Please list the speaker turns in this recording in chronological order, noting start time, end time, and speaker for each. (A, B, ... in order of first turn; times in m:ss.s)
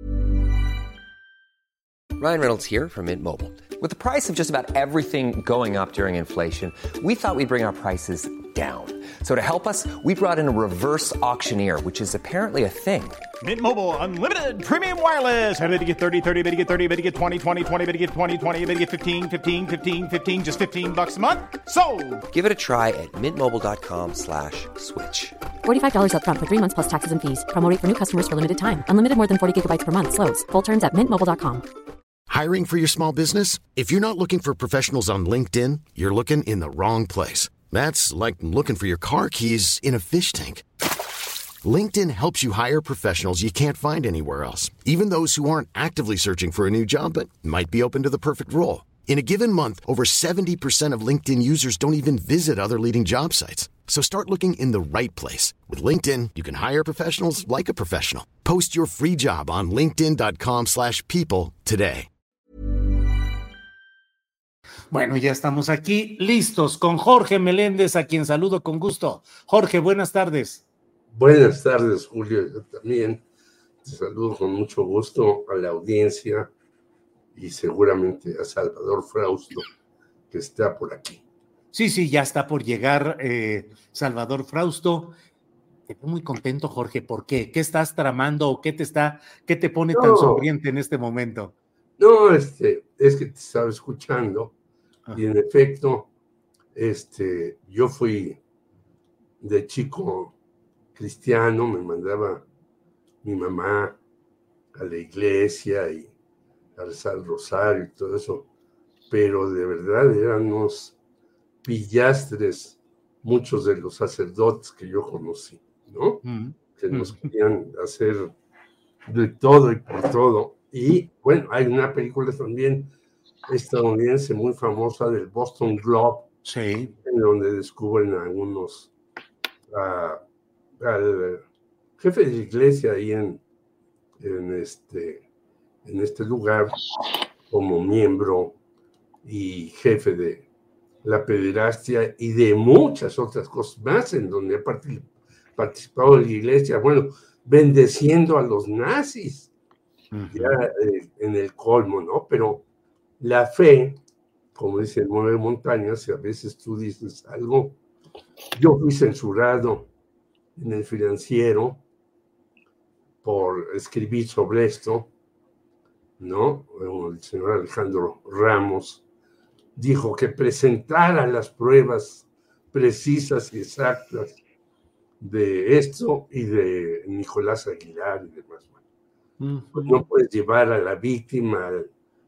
0:02.2-0:13.2 A
0:13.4-0:22.2 B
0:22.3-0:25.4 A
0:25.6-0:31.6 C
0:32.3-0:40.6 D
0:41.6-1:02.1 D
1:04.9-1:10.6 E
1:11.1-1:13.2 F
1:13.8-1:16.5 F
1:17.3-1:19.6 F
1:20.3-1:21.2 F
1:21.7-1:25.2 E
1:25.9-1:31.5 E
1:29.9-1:30.5 F
1:32.0-1:34.5 F
1:35.1-1:36.1 F
1:36.7-1:38.4 F
1:39.4-1:40.3 F
1:40.9-1:42.4 F
1:43.2-1:44.0 F
1:44.7-1:46.1 F
1:46.8-1:48.5 F
1:49.1-1:51.0 F
1:51.6-1:58.3 F
1:56.2-1:57.3 E
1:59.0-2:02.9 F
2:03.5-2:06.3 F
2:06.4-2:06.9 E
2:07.0-2:08.9 F
2:09.7-2:10.2 F
2:10.8-2:11.4 F
2:12.0-2:13.4 F
2:14.2-2:15.2 F
2:15.8-2:16.8 F
2:17.5-2:18.6 F
2:19.2-2:20.4 F
2:21.0-2:29.5 F
2:30.1-2:30.6 E
2:30.3-2:32.6 F
2:33.2-2:34.0 F
2:34.5-2:37.8 F
2:38.5-2:39.9 F
2:40.6-2:41.8 F
2:43.2-2:45.1 F
2:46.2-2:49.0 F
2:49.8-2:54.4 F
2:55.2-2:58.8 F
2:59.4-3:00.0 E
2:59.7-3:01.9 F